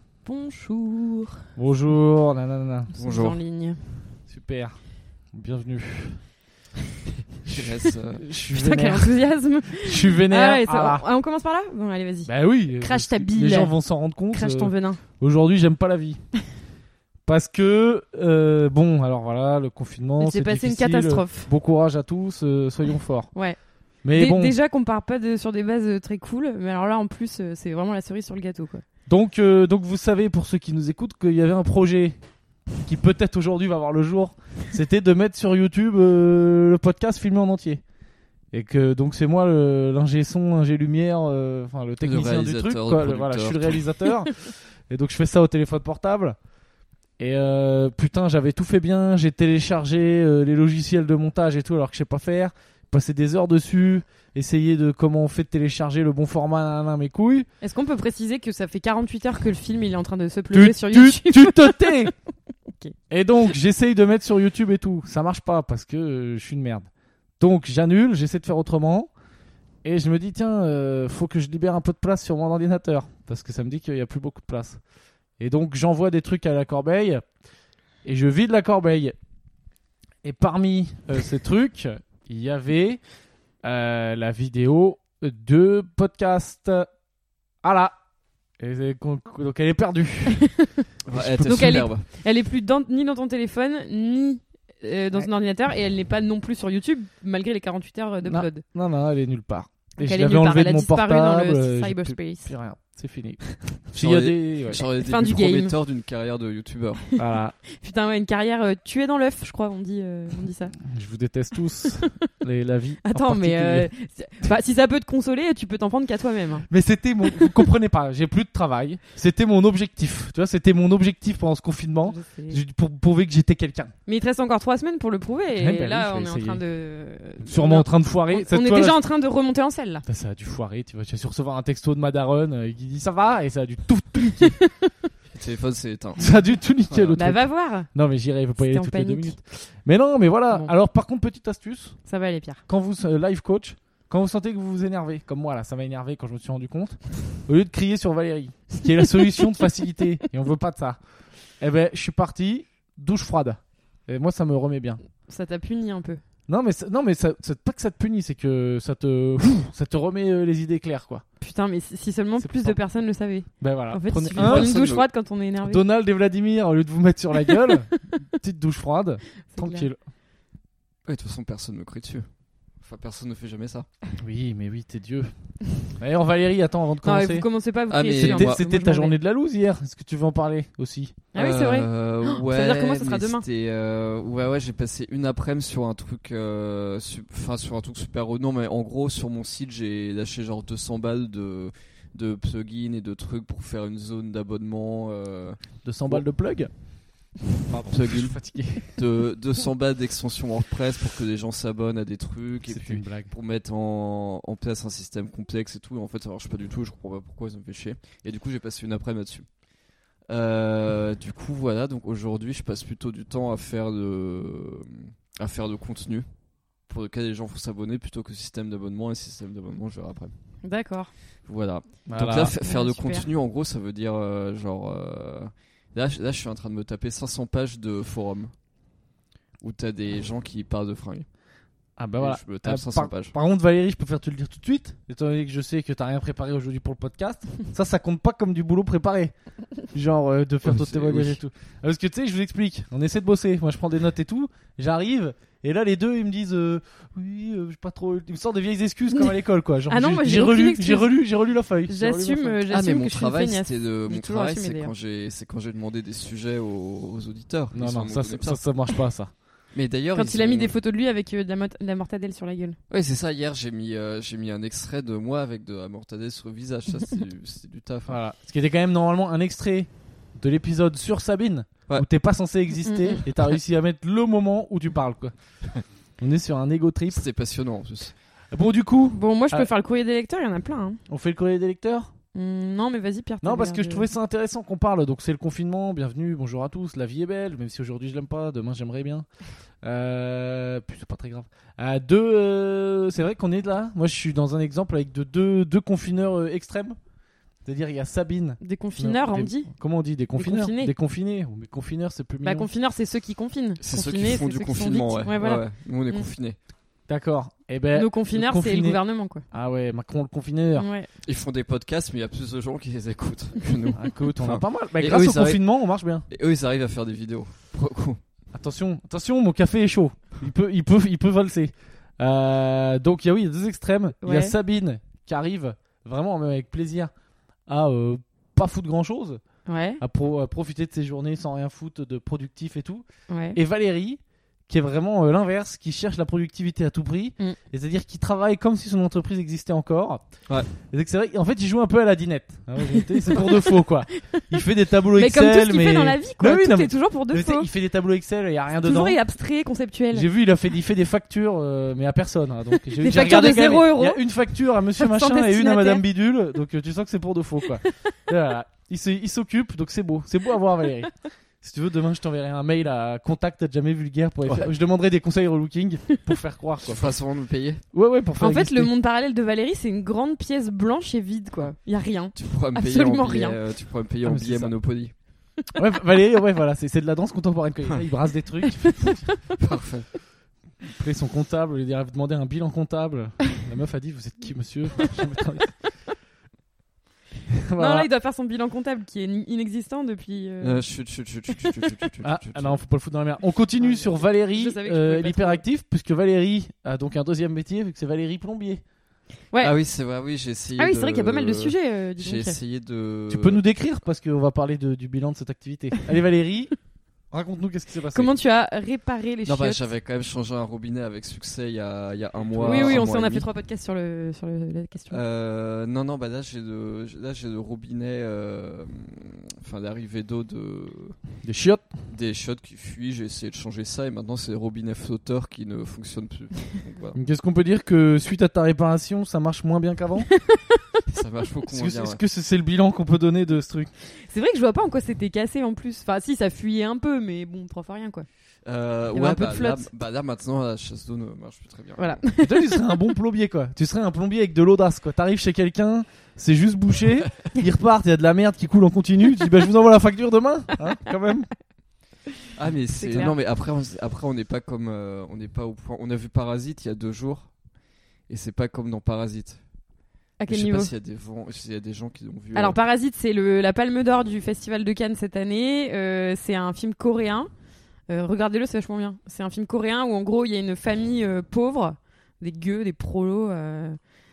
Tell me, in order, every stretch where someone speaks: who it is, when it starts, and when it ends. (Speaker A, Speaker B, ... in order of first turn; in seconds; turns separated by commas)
Speaker A: 0.2-1.5, Speaker B: 1.6-2.9, Speaker A: 2.9-4.0, Speaker C: 3.0-3.4, Speaker B: 4.3-4.8, Speaker B: 5.3-6.2, Speaker C: 7.5-8.2, Speaker B: 7.5-11.0, Speaker A: 8.5-13.8, Speaker B: 12.3-16.2, Speaker A: 14.3-15.0, Speaker B: 17.3-23.3, Speaker A: 20.2-21.5, Speaker A: 23.3-23.6, Speaker B: 24.0-24.6, Speaker A: 24.1-28.8, Speaker B: 29.1-32.2, Speaker B: 32.8-37.8, Speaker B: 38.5-46.4, Speaker C: 42.0-43.8, Speaker B: 47.2-57.5, Speaker A: 57.6-62.1, Speaker B: 60.5-62.1, Speaker B: 63.1-66.9, Speaker B: 67.4-69.1, Speaker B: 69.8-74.8, Speaker B: 75.4-77.2, Speaker B: 78.0-79.2, Speaker B: 80.2-83.0, Speaker B: 83.6-86.9, Speaker B: 87.6-88.0, Speaker B: 88.6-90.5, Speaker A: 90.3-90.8, Speaker C: 91.1-92.1, Speaker B: 91.1-91.6, Speaker A: 91.4-98.6, Speaker B: 98.2-104.8, Speaker A: 100.0-102.5, Speaker C: 104.0-107.1, Speaker A: 104.7-105.7, Speaker A: 107.1-110.8, Speaker B: 107.2-107.5, Speaker B: 110.8-113.9, Speaker A: 111.9-112.3, Speaker A: 113.0-116.7, Speaker B: 116.7-123.9, Speaker A: 117.3-117.6, Speaker A: 122.1-122.6, Speaker A: 124.1-130.1, Speaker B: 125.6-126.6, Speaker B: 127.4-129.0, Speaker B: 130.1-134.6, Speaker A: 134.4-134.9, Speaker C: 135.3-136.4, Speaker B: 136.2-142.0, Speaker C: 136.9-137.2, Speaker A: 137.1-137.9, Speaker A: 138.6-139.4, Speaker A: 142.1-142.6, Speaker B: 142.7-151.0, Speaker B: 151.6-155.0, Speaker A: 155.3-156.2, Speaker B: 156.5-161.2, Speaker A: 161.4-165.8, Speaker B: 162.4-162.8, Speaker B: 163.6-164.7, Speaker C: 164.4-165.1, Speaker B: 165.7-170.0, Speaker A: 167.5-167.8, Speaker A: 169.5-169.9, Speaker C: 171.1-172.3, Speaker C: 172.8-173.9, Speaker B: 174.2-175.3, Speaker B: 175.9-177.5, Speaker A: 177.0-179.1, Speaker C: 177.9-178.6, Speaker B: 178.1-181.2, Speaker A: 181.3-183.4, Speaker C: 181.4-196.2, Speaker B: 195.8-196.8, Speaker B: 197.7-199.0, Speaker C: 197.9-209.5, Speaker B: 202.7-203.3, Speaker C: 210.3-216.3, Speaker C: 216.9-220.3, Speaker A: 220.6-221.1, Speaker C: 221.5-228.5, Speaker B: 222.1-222.6, Speaker A: 222.6-223.3, Speaker C: 229.6-231.3, Speaker B: 232.0-239.3, Speaker C: 232.2-233.3, Speaker B: 239.9-252.6, Speaker C: 240.6-241.4, Speaker A: 249.9-251.2, Speaker A: 251.9-254.9, Speaker C: 252.7-258.6, Speaker B: 257.7-259.3, Speaker C: 259.7-260.7, Speaker A: 260.1-262.8, Speaker C: 262.9-268.2, Speaker B: 268.1-275.3, Speaker A: 272.8-273.2, Speaker B: 276.2-277.2, Speaker C: 277.1-278.1, Speaker B: 278.5-279.7, Speaker A: 279.1-281.0, Speaker B: 281.1-282.1, Speaker A: 282.3-284.1, Speaker B: 283.4-289.3, Speaker B: 289.8-297.0, Speaker B: 297.6-302.7, Speaker A: 298.6-299.7, Speaker A: 300.4-300.9, Speaker A: 302.4-306.3, Speaker C: 303.8-306.6, Speaker B: 307.1-309.0, Speaker A: 307.9-309.4, Speaker B: 309.5-310.9, Speaker A: 310.8-311.1, Speaker C: 311.2-315.6, Speaker B: 313.9-316.3, Speaker C: 316.3-318.2, Speaker B: 318.5-327.1, Speaker A: 324.2-324.6, Speaker B: 327.7-329.4, Speaker A: 329.7-330.0, Speaker B: 330.0-340.2, Speaker A: 333.3-333.6, Speaker B: 340.8-349.2, Speaker A: 342.9-343.8, Speaker A: 344.3-344.6, Speaker A: 345.1-347.7, Speaker A: 348.8-350.3, Speaker B: 350.1-367.1, Speaker A: 352.9-354.2, Speaker A: 355.0-356.0, Speaker A: 357.8-358.1, Speaker C: 366.9-367.8, Speaker B: 367.9-368.9, Speaker A: 368.4-373.6, Speaker C: 372.4-375.1, Speaker B: 374.2-374.7, Speaker B: 375.8-379.3, Speaker C: 379.6-380.1, Speaker B: 380.9-385.7, Speaker B: 387.5-388.1, Speaker A: 387.8-390.8, Speaker C: 390.6-392.8, Speaker B: 392.2-398.8, Speaker A: 393.8-395.6, Speaker C: 399.6-403.6, Speaker A: 400.8-402.6, Speaker B: 403.3-406.7, Speaker B: 407.3-408.3, Speaker A: 408.1-409.9, Speaker C: 409.5-413.5, Speaker B: 412.5-413.0, Speaker A: 412.6-415.2, Speaker C: 415.1-421.2, Speaker B: 421.4-421.9, Speaker C: 422.1-427.2, Speaker B: 427.1-430.3, Speaker A: 430.4-430.8, Speaker C: 431.1-432.2, Speaker B: 431.7-433.9, Speaker A: 434.1-438.3, Speaker C: 438.6-442.2, Speaker A: 439.1-439.9, Speaker A: 442.0-442.8, Speaker B: 442.4-451.5, Speaker C: 452.6-457.5, Speaker A: 452.9-453.3, Speaker C: 458.3-459.6, Speaker A: 460.4-460.9, Speaker C: 460.5-462.8, Speaker A: 462.5-467.5, Speaker A: 468.1-474.0